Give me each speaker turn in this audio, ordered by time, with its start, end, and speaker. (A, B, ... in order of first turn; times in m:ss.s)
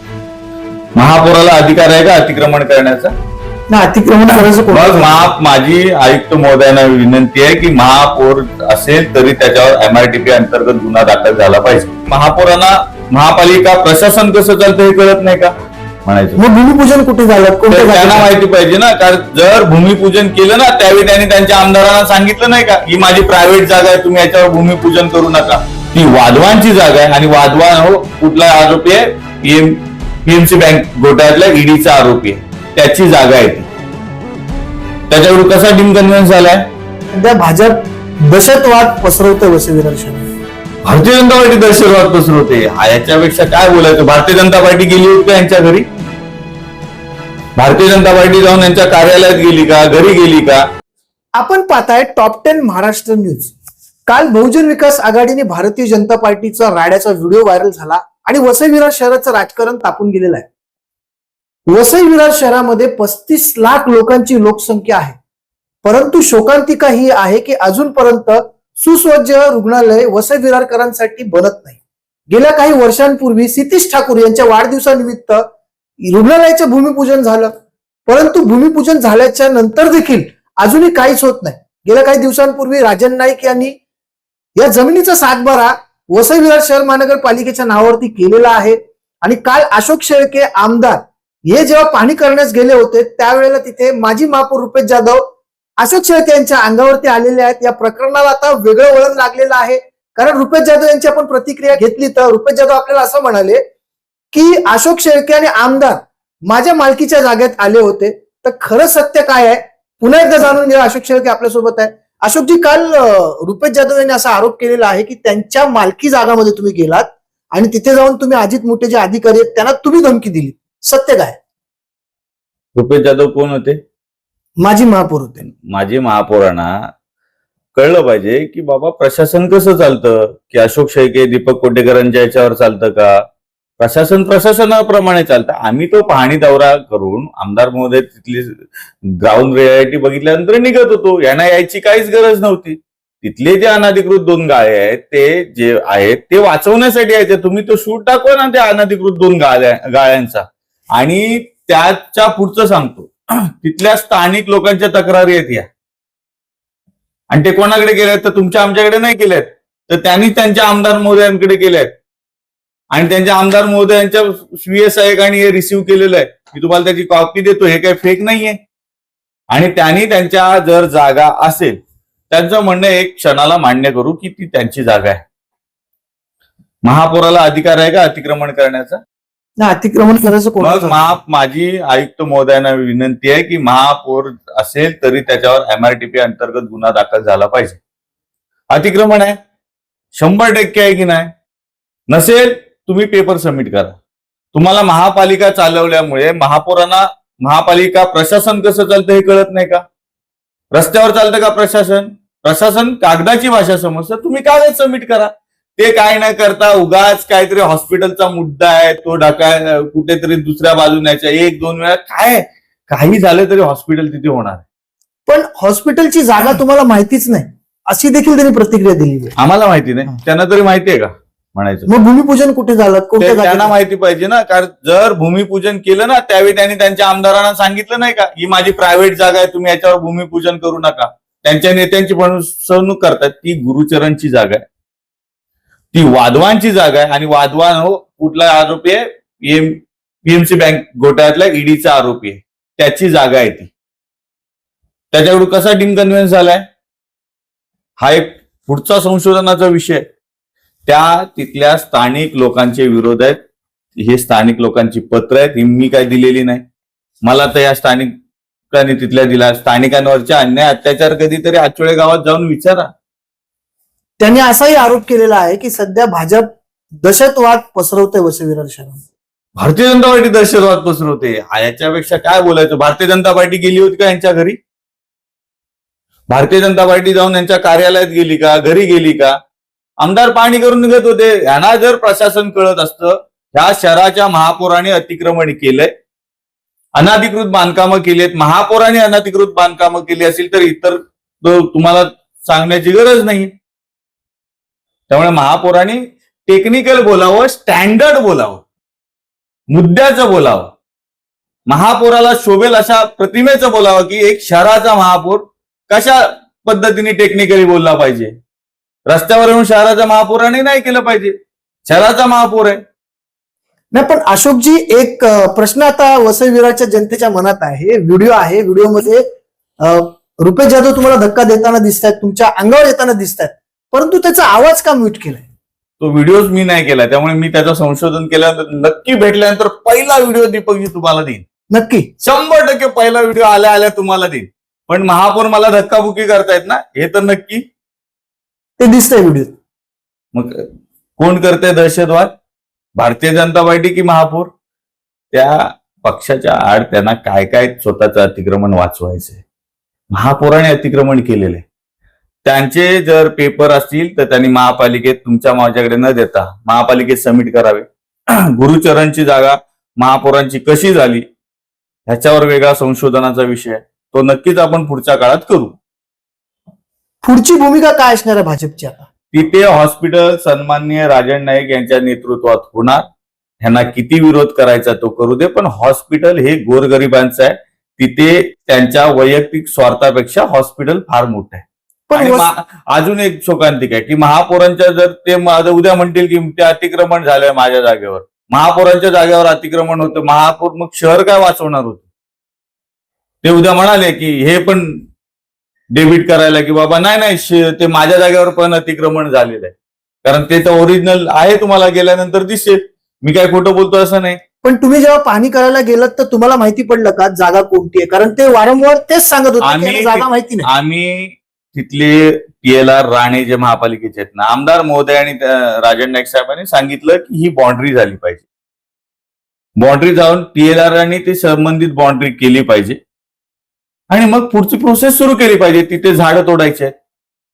0:01.0-0:03.1 A
0:03.7-0:05.3 B
0:04.7-0:15.5 A
0:16.0-0:16.4 A
0:16.4-0:18.3 B
0:17.7-0:33.7 A
0:35.1-0:36.7 A
0:37.1-0:40.3 B
0:40.8-0:45.9 A
0:47.6-0:50.6 A
0:51.4-0:53.5 B
0:54.1-1:00.4 B
1:01.7-1:05.2 B
1:05.8-1:15.4 B
1:16.0-1:17.5 B
1:18.0-1:23.8 B
1:24.6-1:35.2 B
1:35.8-1:43.6 B
1:44.3-2:01.4 B
2:02.7-2:03.8 A
2:04.6-2:05.4 B
2:05.4-2:06.7 A
2:07.7-2:13.2 A
2:13.8-2:18.6 A
2:19.2-2:30.4 A
2:31.0-2:35.6 A
2:37.3-2:41.9 A
2:42.9-2:48.6 A
2:49.5-2:51.8 A
2:52.3-2:55.2 A
2:56.8-2:59.0 A
2:59.6-3:01.0 B
3:00.6-3:07.8 A
3:08.7-3:09.4 A
3:10.1-3:11.3 A
3:12.1-3:14.0 A
3:14.5-3:19.8 A
3:20.7-3:34.6 A
3:35.2-3:39.3 B
3:39.4-3:41.9 A
3:41.9-3:43.7 B
3:43.2-3:54.6 A
3:55.9-4:03.7 A
4:05.1-4:06.6 A
4:08.0-4:10.0 A
4:10.8-4:13.4 A
4:13.9-4:16.6 A
4:17.2-4:18.1 A
4:18.7-4:22.9 A
4:24.2-4:29.0 B
4:29.6-4:34.6 A
4:36.3-4:39.4 A
4:40.0-4:45.9 A
4:47.0-4:53.5 A
4:55.1-4:58.6 A
4:59.7-5:00.7 A
5:01.7-5:08.3 A
5:09.1-5:11.3 A
5:11.8-5:12.8 A
5:13.9-5:19.2 B
5:19.8-5:25.4 B
5:26.0-5:31.4 A
5:31.7-5:32.1 B
5:32.2-5:37.6 A
5:38.8-5:39.5 B
5:40.3-5:40.6 A
5:41.2-5:42.3 A
5:43.0-5:44.5 A
5:45.3-5:49.4 A
5:50.1-5:51.6 A
5:52.4-6:01.2 A
6:02.1-6:05.8 A
6:07.2-6:09.0 B
6:09.3-6:13.0 A
6:13.6-6:32.0 A
6:22.1-6:22.5 B
6:33.4-6:35.0 A
6:35.9-6:39.7 A
6:40.2-6:44.4 A
6:44.6-6:50.7 B
6:49.6-6:58.4 A
6:59.8-7:03.0 A
7:04.1-7:06.9 A